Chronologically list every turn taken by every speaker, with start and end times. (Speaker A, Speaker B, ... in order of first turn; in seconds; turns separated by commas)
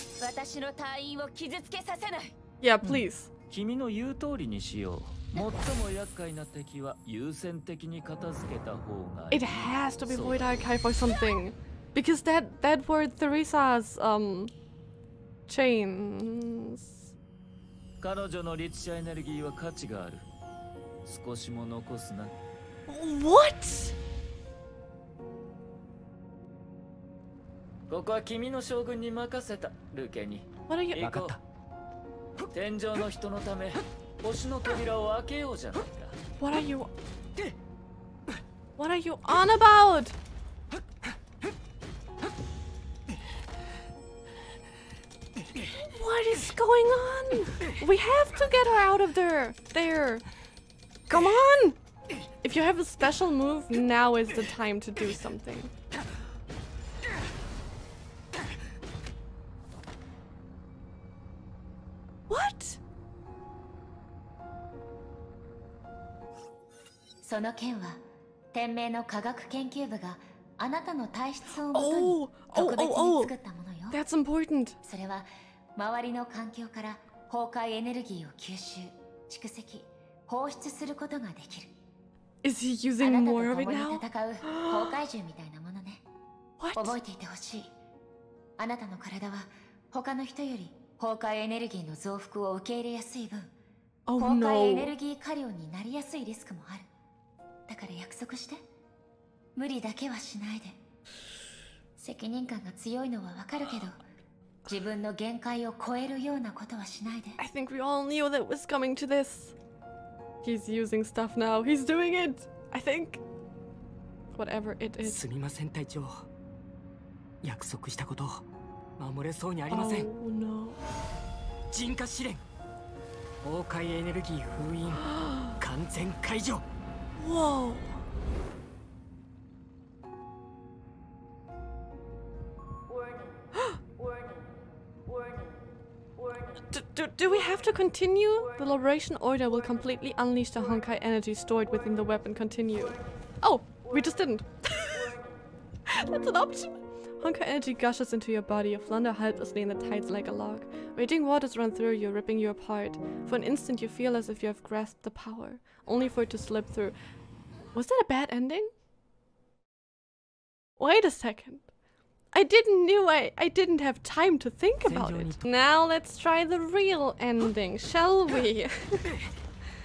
Speaker A: 0.2-2.3, Speaker B: 2.6-3.3, Speaker C: 3.5-10.5, Speaker B: 9.3-14.5, Speaker B: 15.5-17.1, Speaker C: 18.0-20.3, Speaker C: 21.1-22.3, Speaker B: 22.9-24.0, Speaker C: 27.9-31.4, Speaker B: 30.7-31.1, Speaker D: 31.0-31.4, Speaker C: 32.5-36.2, Speaker B: 36.4-36.9, Speaker B: 38.8-40.2, Speaker B: 45.9-50.2, Speaker B: 51.1-51.8, Speaker B: 52.4-55.7, Speaker B: 62.3-62.8, Speaker A: 67.2-68.0, Speaker A: 68.5-74.0, Speaker B: 71.7-73.3, Speaker B: 73.9-74.8, Speaker A: 74.8-81.7, Speaker B: 82.4-85.0, Speaker A: 83.0-86.0, Speaker B: 86.6-87.0, Speaker A: 86.8-87.7, Speaker A: 88.6-93.5, Speaker B: 94.1-94.9, Speaker A: 94.2-96.9, Speaker A: 97.7-98.6, Speaker A: 99.6-100.8, Speaker A: 102.0-104.0, Speaker A: 104.7-107.4, Speaker B: 107.4-109.5, Speaker B: 110.4-113.2, Speaker B: 114.3-115.2, Speaker D: 115.0-116.3, Speaker D: 117.4-118.5, Speaker D: 119.0-120.1, Speaker B: 119.7-120.8, Speaker D: 121.7-122.4, Speaker D: 123.4-126.7, Speaker B: 125.2-125.5, Speaker B: 127.2-128.0, Speaker B: 136.7-145.2, Speaker B: 145.9-156.9, Speaker B: 157.7-158.7, Speaker B: 160.8-161.7, Speaker B: 162.3-169.1, Speaker D: 164.9-165.4